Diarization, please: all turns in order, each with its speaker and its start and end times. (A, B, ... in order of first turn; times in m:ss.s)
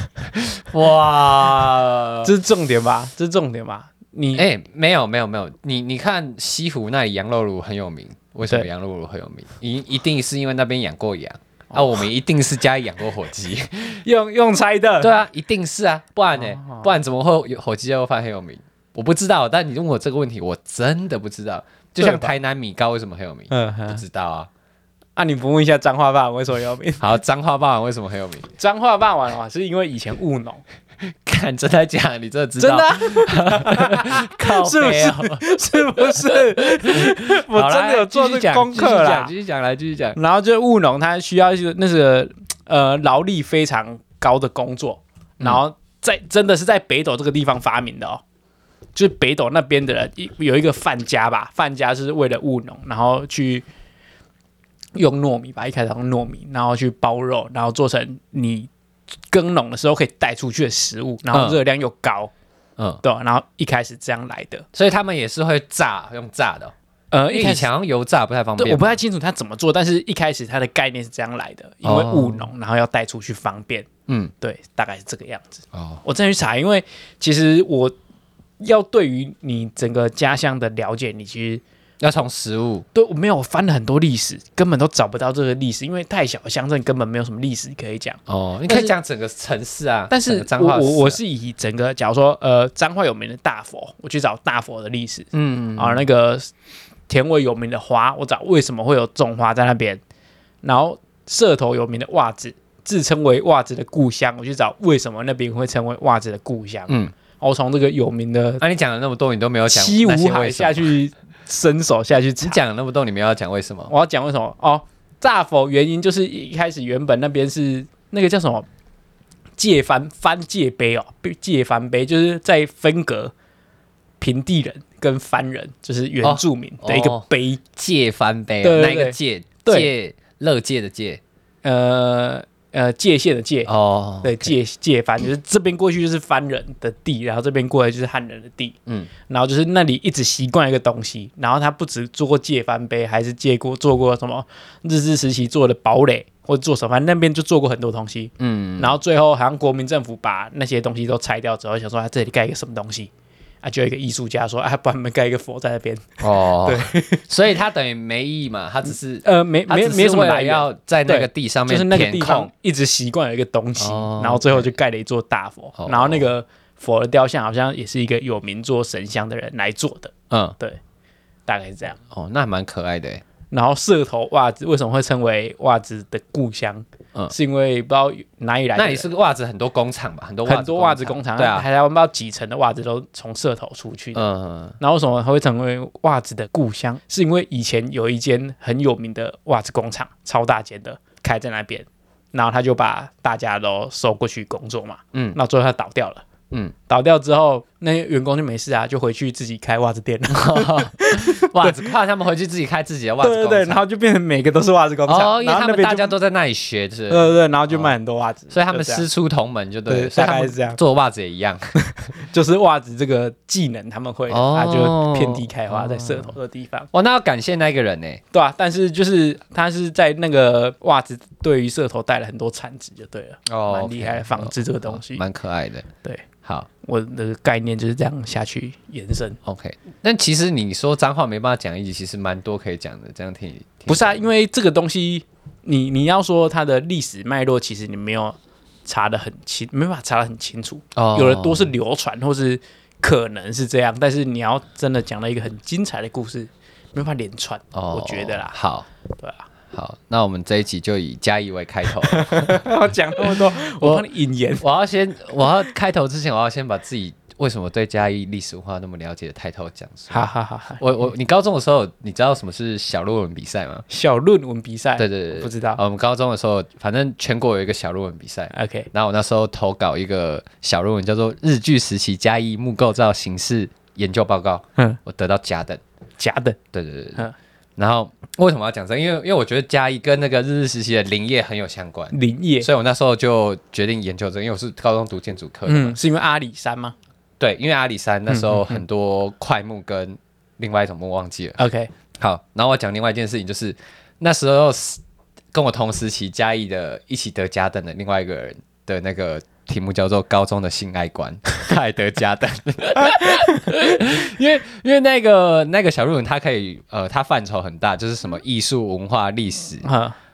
0:00.5-0:02.3 A
0:02.2-0:04.4 B
0:04.3-0:14.0 A
0:14.0-0:15.2 B
0:15.0-0:24.5 A
0:16.3-0:16.9 B
0:22.0-0:22.3 B
0:23.5-0:24.0 B
0:25.2-0:27.0 B
0:27.0-0:28.5 A
0:28.6-0:30.6 B
0:31.1-0:40.2 A
0:32.6-0:39.3 B
0:40.2-0:48.2 B
0:48.9-0:53.6 B
0:54.9-0:58.7 B
0:59.3-1:02.3 B
1:01.3-1:01.6 A
1:03.0-1:04.6 B
1:04.7-1:06.7 A
1:07.1-1:07.7 B
1:07.3-1:09.0 A
1:08.6-1:13.9 B
1:11.8-1:12.5 A
1:14.1-1:14.3 A
1:14.4-1:17.9 B
1:15.7-1:16.0 A
1:18.6-1:21.6 B
1:22.0-1:22.8 A
1:22.9-1:28.9 B
1:28.3-1:31.2 A
1:30.1-1:36.5 B
1:35.3-1:36.0 A
1:37.1-1:40.0 B
1:40.6-1:48.6 B
1:48.6-1:50.9 A
1:49.7-1:52.6 B
1:52.4-1:53.9 A
1:53.9-1:58.6 B
1:59.6-2:03.3 B
2:04.2-2:07.6 B
2:06.2-2:11.2 A
2:08.6-2:09.9 B
2:11.6-2:13.7 B
2:13.6-2:14.5 A
2:14.2-2:33.1 B
2:28.4-2:28.9 A
2:33.6-2:37.2 B
2:36.2-2:42.5 A
2:39.2-2:50.8 B
2:43.8-2:44.7 A
2:45.8-2:46.3 A
2:50.3-2:50.6 A
2:51.5-2:52.0 B
2:52.1-2:53.2 A
2:53.5-2:59.1 B
2:58.8-3:01.7 A
3:00.4-3:04.2 B
3:04.1-3:04.7 A
3:04.8-3:16.2 B
3:16.9-3:21.9 B
3:20.3-3:23.8 A
3:23.2-3:26.1 B
3:25.1-3:27.9 A
3:27.1-3:29.0 B
3:28.5-3:31.7 A
3:29.9-3:30.8 B
3:32.2-3:36.9 B
3:34.3-3:36.3 A
3:36.9-3:38.2 A
3:38.3-3:45.2 B
3:43.5-3:45.9 A
3:46.8-3:49.4 B
3:49.4-3:54.2 A
3:53.9-4:08.5 B
4:00.9-4:01.7 A
4:07.7-4:08.9 A
4:09.2-4:09.4 B
4:09.7-4:14.1 A
4:12.1-4:14.6 B
4:14.6-4:20.3 A
4:20.1-4:20.8 B
4:20.8-4:23.8 A
4:23.9-4:25.8 B
4:25.0-4:35.8 A
4:28.5-4:28.9 B
4:36.2-4:36.6 B
4:36.7-4:37.2 A
4:37.8-4:46.0 A
4:42.1-4:42.7 B
4:45.7-4:46.9 B
4:47.4-4:51.6 A
4:48.3-4:48.8 B
4:51.6-4:51.9 B
4:52.2-4:55.0 A
4:55.5-5:09.8 A
5:09.8-5:10.2 B